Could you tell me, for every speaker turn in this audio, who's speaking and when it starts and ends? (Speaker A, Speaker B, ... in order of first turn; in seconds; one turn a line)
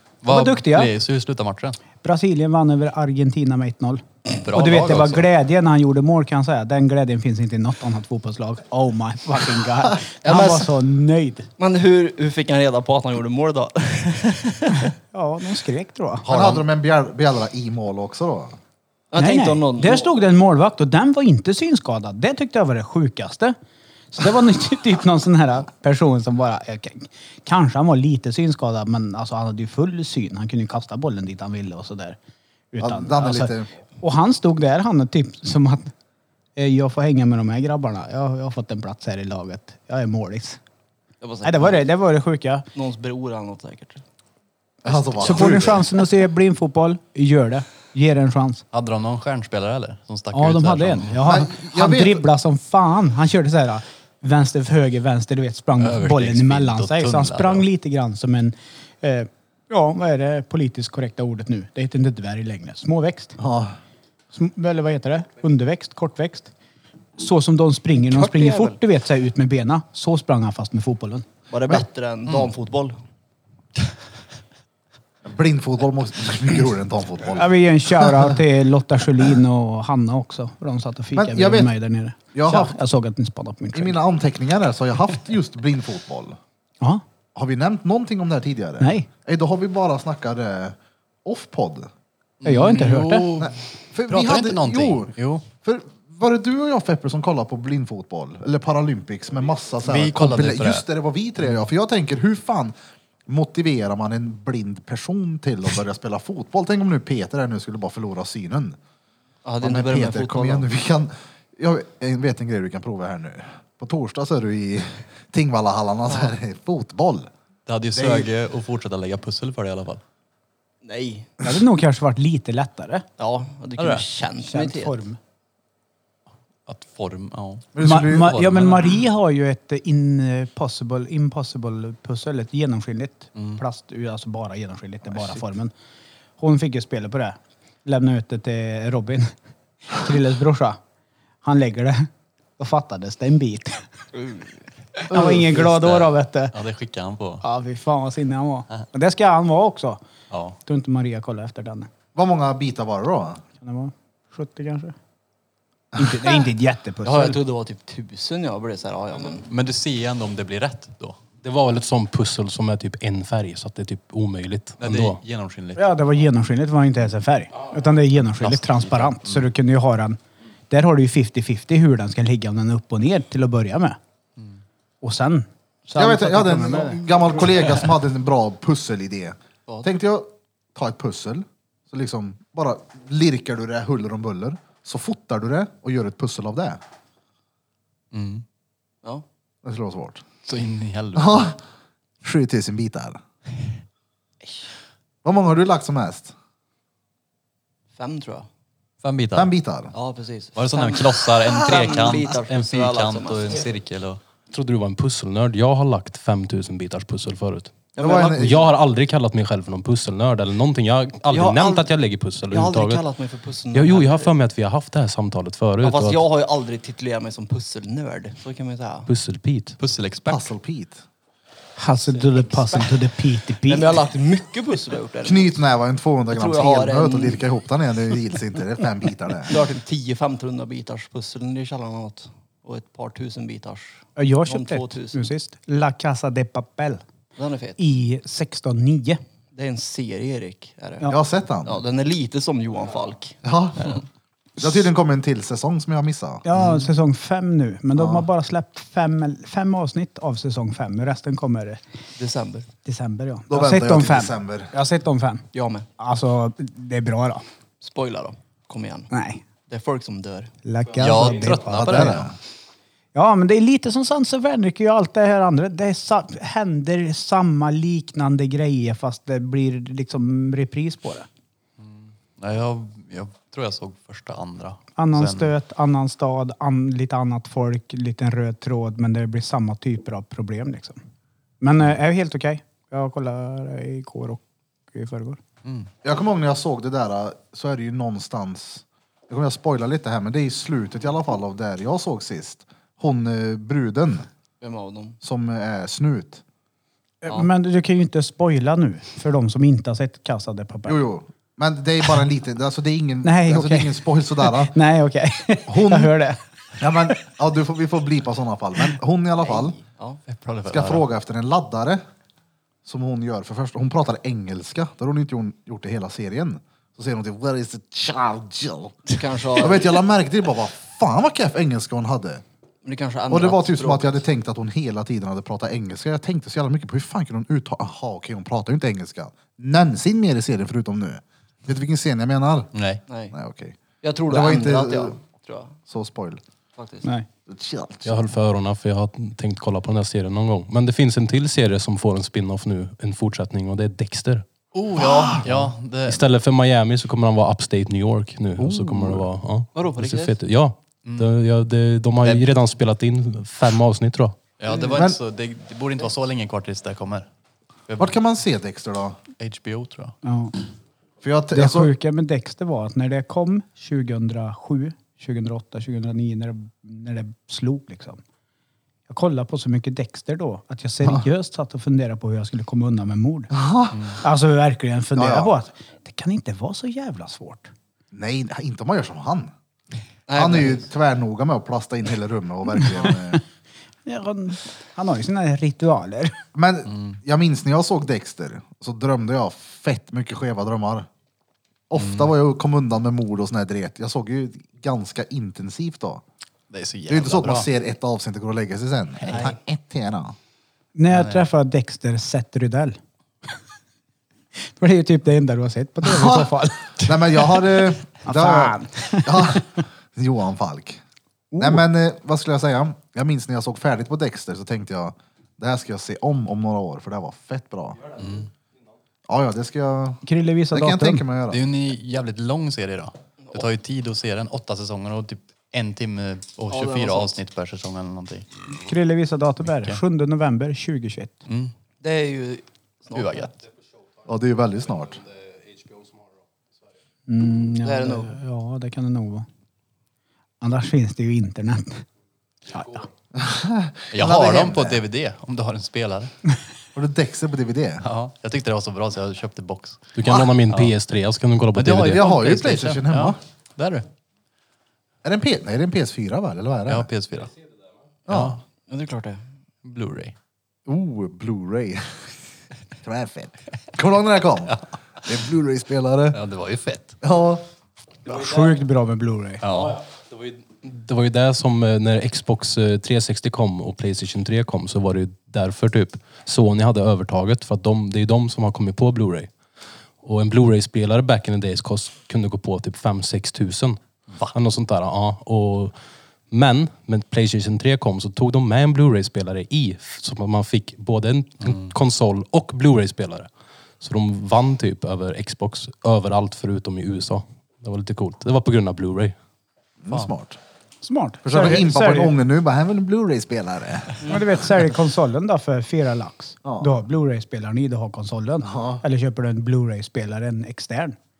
Speaker A: 0.2-1.8
Speaker B: 0.2-0.9
Speaker B: 2.0-11.5
Speaker A: 4.3-5.3
Speaker C: 9.9-10.7
Speaker D: 10.2-10.5
Speaker D: 11.6-14.9
Speaker B: 15.1-16.3
Speaker A: 16.2-16.7
Speaker C: 16.3-18.6
Speaker D: 19.1-20.1
Speaker B: 19.2-23.6
Speaker B: 24.1-32.2
Speaker B: 32.7-35.9
Speaker C: 32.8-33.7
Speaker B: 36.6-40.6
Speaker D: 41.2-41.9
Speaker B: 41.4-42.7
Speaker D: 42.8-44.0
Speaker C: 44.8-45.9
Speaker D: 44.9-45.9
Speaker B: 45.2-48.6
Speaker A: 48.7-51.2
Speaker B: 50.3-63.4
Speaker C: 51.2-52.2
Speaker A: 55.8-57.7
Speaker C: 63.4-63.8
Speaker B: 64.3-66.5
Speaker B: 67.2-71.3
Speaker D: 68.1-68.8
Speaker D: 71.5-73.0
Speaker C: 75.2-78.3
Speaker B: 77.3-84.0
Speaker C: 81.2-81.7
Speaker C: 82.3-82.8
Speaker C: 83.7-86.4
Speaker C: 87.3-91.9
Speaker B: 88.8-89.1
Speaker A: 92.4-95.5
Speaker B: 92.4-93.3
Speaker C: 93.4-102.8
Speaker A: 99.8-100.8
Speaker C: 103.3-108.8
Speaker D: 109.5-110.7
Speaker C: 109.6-117.3
Speaker A: 117.7-120.0
Speaker C: 118.0-118.3
Speaker D: 120.8-121.4
Speaker B: 121.4-123.1
Speaker D: 123.2-125.0
Speaker A: 123.8-124.0
Speaker B: 124.4-125.2
Speaker A: 126.7-129.0
Speaker C: 127.8-128.3
Speaker B: 127.8-135.7
Speaker A: 133.3-133.6
Speaker B: 136.4-139.3
Speaker B: 139.9-140.8
Speaker B: 141.4-143.9
Speaker D: 144.1-144.6
Speaker B: 145.1-146.6
Speaker C: 145.1-145.4
Speaker A: 145.2-147.4
Speaker B: 147.4-150.0
Speaker A: 150.3-150.6
Speaker B: 150.7-151.9
Speaker C: 152.1-153.4
Speaker B: 153.6-155.0
Speaker C: 155.9-156.3
Speaker B: 155.9-157.4
Speaker D: 157.0-159.5
Speaker A: 159.4-161.2
Speaker E: 161.4-165.2
Speaker A: 164.8-165.8
Speaker B: 165.8-170.2
Speaker A: 168.4-169.5
Speaker B: 170.7-174.0
Speaker B: 175.0-177.0
Speaker C: 175.9-186.8
Speaker A: 188.1-188.4
Speaker C: 189.6-190.2
Speaker A: 190.4-191.5
Speaker C: 191.2-191.6
Speaker C: 192.2-193.2
Speaker C: 195.2-196.3
Speaker D: 197.9-198.5
Speaker A: 199.0-199.5
Speaker C: 199.4-199.9
Speaker D: 199.9-203.7
Speaker A: 200.6-204.2
Speaker C: 201.5-202.2
Speaker E: 204.5-213.0
Speaker C: 208.0-208.7
Speaker D: 208.0-208.5
Speaker D: 211.3-211.9
Speaker D: 212.5-214.3
Speaker E: 213.7-216.2
Speaker D: 215.8-219.1
Speaker E: 219.1-219.8
Speaker A: 219.8-220.5
Speaker C: 220.3-221.0
Speaker B: 221.8-224.1
Speaker D: 222.1-223.0
Speaker D: 223.6-225.7
Speaker C: 225.2-229.6
Speaker D: 226.3-227.4
Speaker D: 229.5-235.3
Speaker B: 234.2-237.0
Speaker D: 237.4-237.8
Speaker B: 237.8-239.2
Speaker D: 239.5-241.1
Speaker C: 241.1-241.8
Speaker D: 241.7-244.0
Speaker C: 243.4-244.0
Speaker C: 244.6-246.5
Speaker B: 246.4-251.8
Speaker C: 248.0-248.3
Speaker D: 252.2-252.7
Speaker B: 252.8-255.5
Speaker C: 253.5-254.7
Speaker D: 255.5-255.9
Speaker B: 256.0-257.4
Speaker D: 257.8-259.1
Speaker B: 259.1-259.4
Speaker D: 259.7-260.5
Speaker B: 260.6-262.3
Speaker A: 261.0-262.3
Speaker C: 261.7-262.3
Speaker B: 263.1-271.3
Speaker A: 271.8-275.5
Speaker B: 275.0-281.0
Speaker B: 281.6-285.4
Speaker A: 285.6-285.9
Speaker C: 286.0-294.3
Speaker D: 294.6-295.2
Speaker C: 295.2-296.4
Speaker B: 297.2-301.0
Speaker C: 300.9-304.8
Speaker B: 303.2-307.2
Speaker C: 305.7-306.1
Speaker C: 306.8-309.8
Speaker D: 309.4-310.2
Speaker A: 310.3-311.1
Speaker C: 310.7-312.0
Speaker C: 312.9-319.0
Speaker D: 319.1-320.0
Speaker C: 319.6-322.4
Speaker D: 322.8-324.2
Speaker C: 323.3-332.7
Speaker A: 332.7-333.0
Speaker D: 333.1-333.4
Speaker C: 333.3-333.8
Speaker D: 334.0-335.8
Speaker C: 334.3-335.2
Speaker C: 335.9-336.4
Speaker D: 336.8-337.1
Speaker C: 337.5-338.3
Speaker E: 338.1-344.5
Speaker A: 344.7-346.2
Speaker C: 345.0-345.7
Speaker E: 346.1-354.4
Speaker C: 348.6-349.3
Speaker D: 349.8-350.4
Speaker A: 351.0-351.3
Speaker A: 354.6-357.3
Speaker C: 354.9-355.2
Speaker A: 357.9-358.2
Speaker C: 358.0-359.2
Speaker A: 359.4-360.1
Speaker B: 360.2-360.6
Speaker C: 361.2-361.9
Speaker B: 361.5-368.2
Speaker B: 369.1-373.5
Speaker C: 373.5-374.1
Speaker B: 374.1-377.7
Speaker C: 375.2-375.5
Speaker C: 378.1-379.5
Speaker D: 380.3-380.9
Speaker C: 380.4-383.4
Speaker B: 384.1-386.4
Speaker C: 386.6-391.1
Speaker A: 386.9-387.2
Speaker C: 391.9-396.2
Speaker A: 391.9-392.3
Speaker A: 396.7-397.7
Speaker C: 397.1-400.4
Speaker D: 399.2-399.6
Speaker B: 401.0-403.0
Speaker A: 401.1-401.4
Speaker B: 404.6-406.9
Speaker C: 406.0-411.0
Speaker B: 408.2-409.8
Speaker B: 411.5-411.9
Speaker C: 411.6-418.1
Speaker A: 418.1-418.5
Speaker C: 419.3-421.6
Speaker B: 420.2-421.2
Speaker A: 421.5-428.5
Speaker D: 426.7-427.4
Speaker B: 428.7-431.4
Speaker A: 429.7-430.0
Speaker A: 431.5-431.7
Speaker D: 432.0-433.6
Speaker A: 433.1-433.5
Speaker C: 434.2-435.2
Speaker B: 437.3-439.5
Speaker D: 437.8-438.4
Speaker B: 440.6-442.1
Speaker B: 442.7-443.1
Speaker C: 443.3-445.0
Speaker A: 444.1-446.3
Speaker C: 446.9-448.1
Speaker A: 448.0-450.9
Speaker E: 450.1-452.2
Speaker A: 451.8-454.1
Speaker C: 452.1-453.4
Speaker C: 455.2-457.1
Speaker A: 456.9-457.5
Speaker C: 458.3-458.6
Speaker A: 458.3-458.6
Speaker D: 458.9-459.4
Speaker A: 459.8-460.3
Speaker C: 460.9-462.2
Speaker C: 463.0-466.4
Speaker A: 466.3-467.2
Speaker C: 467.2-467.6
Speaker B: 468.3-469.6
Speaker A: 469.6-470.0
Speaker E: 469.9-479.5
Speaker E: 480.2-485.9
Speaker E: 486.5-493.5
Speaker A: 491.6-491.9
Speaker E: 494.0-499.4
Speaker C: 500.0-500.6
Speaker B: 501.0-502.4
Speaker C: 501.4-504.6
Speaker B: 504.2-511.2
Speaker C: 506.6-506.9
Speaker C: 508.6-509.0